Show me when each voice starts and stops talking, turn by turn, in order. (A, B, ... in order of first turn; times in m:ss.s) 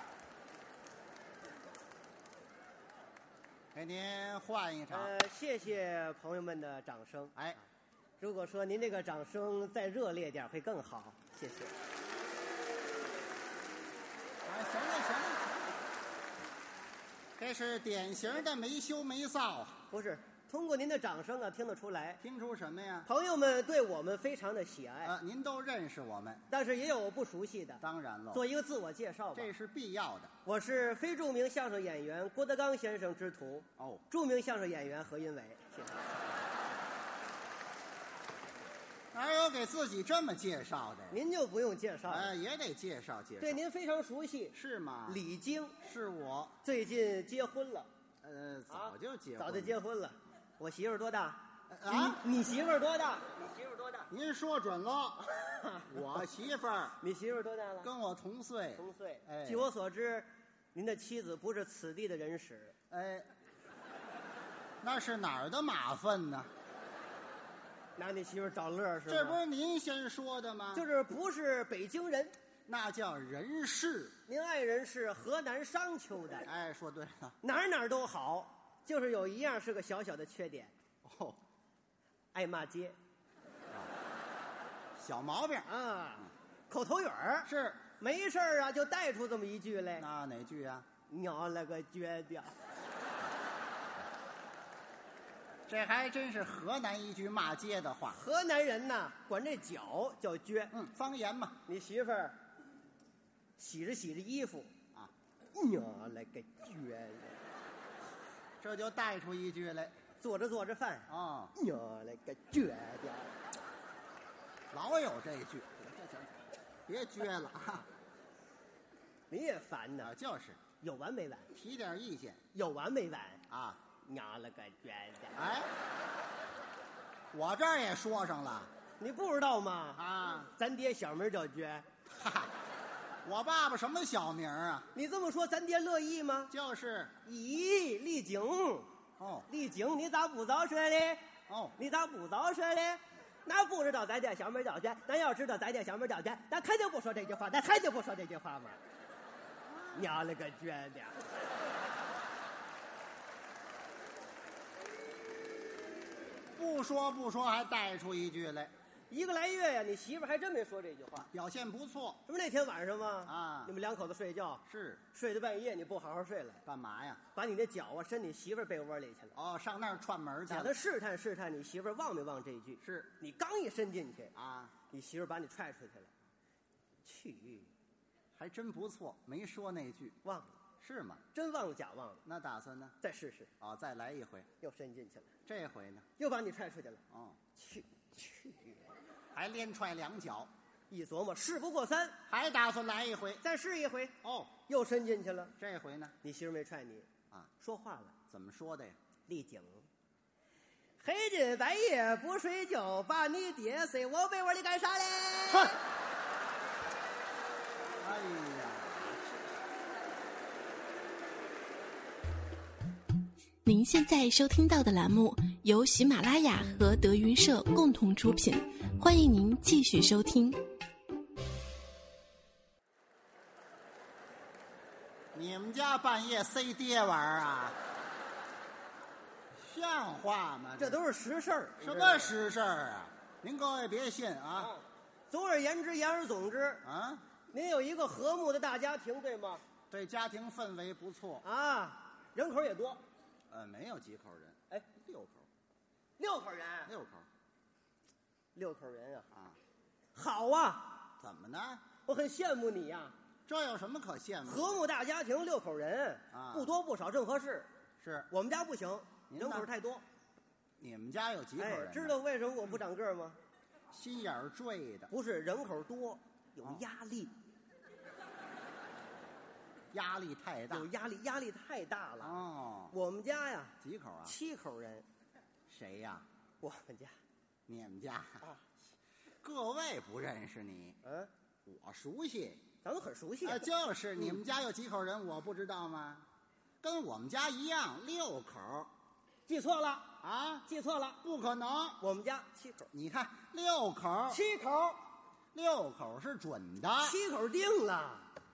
0:03.7-0:05.2 A
0:04.9-0:07.3 B
0:08.2-0:11.8 B
0:14.4-0:15.8 A
0:17.4-0:19.8 A
0:19.9-0:22.2 B
0:22.2-0:23.1 A
0:23.1-0:25.1 B
0:25.0-0:26.4 A
0:26.5-0:29.5 B
0:27.8-0:28.4 A
0:29.4-0:30.3 A
0:30.4-0:36.2 B
0:33.8-0:34.0 A
0:39.1-0:41.2 A
0:41.1-0:42.3 B
0:42.1-0:43.6 A
0:43.4-0:45.8 B
0:44.5-0:45.2 A
0:45.8-0:46.6 A
0:46.6-0:47.9 B
0:48.2-0:49.8 A
0:48.7-0:54.1 B
0:51.7-0:52.2 A
0:54.1-0:55.3 A
0:55.3-0:56.0 B
0:55.9-0:57.0 A
0:57.0-0:57.9 B
0:57.8-0:59.7 A
0:58.8-1:02.8 B
1:02.9-1:03.3 A
1:04.8-1:06.5 A
1:08.0-1:09.4 B
1:09.1-1:10.9 A
1:10.7-1:12.3 B
1:12.7-1:14.2 A
1:14.3-1:16.5 B
1:16.4-1:17.4 A
1:17.4-1:20.7 B
1:21.0-1:21.4 A
1:22.3-1:23.0 B
1:25.0-1:25.7 A
1:25.7-1:30.1 B
1:27.4-1:27.9 A
1:30.0-1:30.9 A
1:31.1-1:32.5 B
1:35.7-1:38.2 A
1:38.1-1:40.7 B
1:40.7-1:41.6 A
1:41.7-1:42.4 B
1:43.6-1:44.7 B
1:45.5-1:47.4 B
1:48.6-1:50.0 A
1:50.2-1:53.3 B
1:51.1-1:51.5 A
1:54.7-1:57.9 A
1:59.3-2:00.1 B
2:00.0-2:00.6 A
2:00.8-2:01.5 B
2:01.5-2:02.4 A
2:02.5-2:03.4 B
2:03.5-2:03.8 A
2:04.0-2:05.4 B
2:05.4-2:05.7 A
2:07.3-2:08.7 A
2:09.0-2:11.9 B
2:10.0-2:10.5 A
2:12.1-2:12.5 A
2:13.2-2:14.9 A
2:14.9-2:16.5 B
2:16.5-2:17.2 A
2:17.2-2:18.9 B
2:19.2-2:19.5 A
2:19.5-2:28.8 B
2:21.5-2:21.8 A
2:29.6-2:30.2 A
2:29.9-2:31.3 B
2:36.6-2:38.7 A
2:39.1-2:41.3 B
2:41.2-2:42.2 A
2:42.3-2:46.6 B
2:43.2-2:43.7 A
2:44.7-2:45.0 A
2:46.6-2:47.2 A
2:47.4-2:49.3 B
2:49.3-2:50.8 A
2:50.5-2:54.3 B
2:52.8-2:53.1 A
2:54.3-2:54.7 A
2:54.9-2:56.1 B
2:57.0-2:57.7 B
2:58.4-3:00.2 A
3:00.2-3:00.6 B
3:00.8-3:01.2 A
3:01.3-3:02.2 B
3:02.2-3:03.0 A
3:03.0-3:03.5 B
3:03.6-3:04.5 A
3:04.6-3:05.3 B
3:05.5-3:06.1 A
3:06.2-3:07.0 B
3:07.1-3:07.4 A
3:07.6-3:08.9 B
3:09.3-3:10.5 A
3:10.9-3:12.2 B
3:12.3-3:13.4 A
3:13.4-3:15.5 B
3:14.2-3:14.5 A
3:15.6-3:16.2 A
3:16.2-3:17.1 B
3:17.6-3:18.2 B
3:18.3-3:19.0 A
3:19.3-3:19.9 B
3:21.0-3:25.8 B
3:28.0-3:29.3 A
3:33.6-3:40.6 C
3:45.3-3:47.8 A
3:49.6-3:51.0 A
3:50.8-3:52.4 B
3:51.8-3:54.7 A
3:54.6-3:56.8 B
3:56.8-3:57.2 A
3:57.5-3:59.6 B
3:59.9-4:01.4 A
4:01.4-4:03.0 B
4:03.5-4:05.5 A
4:06.2-4:06.9 B
4:06.9-4:07.3 A
4:08.6-4:09.3 B
4:09.3-4:09.6 A
4:10.2-4:11.1 B
4:11.2-4:11.9 A
4:12.0-4:13.2 B
4:13.5-4:14.8 A
4:14.4-4:17.7 B
4:16.3-4:16.7 A
4:18.0-4:18.3 A
4:18.3-4:20.0 B
4:19.3-4:19.7 A
4:20.8-4:22.2 A
4:21.6-4:23.4 B
4:23.9-4:25.1 A
4:25.1-4:27.3 B
4:29.9-4:30.9 A
4:30.7-4:35.1 B
4:32.2-4:33.0 A
4:33.8-4:34.4 A
4:35.7-4:36.3 A
4:36.6-4:37.2 B
4:37.7-4:38.4 A
4:39.4-4:41.0 A
4:41.0-4:41.3 B
4:41.7-4:42.6 A
4:42.8-4:44.4 B
4:43.4-4:46.3 A
4:46.8-4:48.9 A
4:49.5-4:51.2 B
4:50.2-4:50.7 A
4:51.2-4:52.0 A
4:52.0-4:52.9 B
4:52.9-4:54.4 A
4:54.3-4:55.0 B
4:55.5-4:57.2 A
4:57.0-4:58.3 B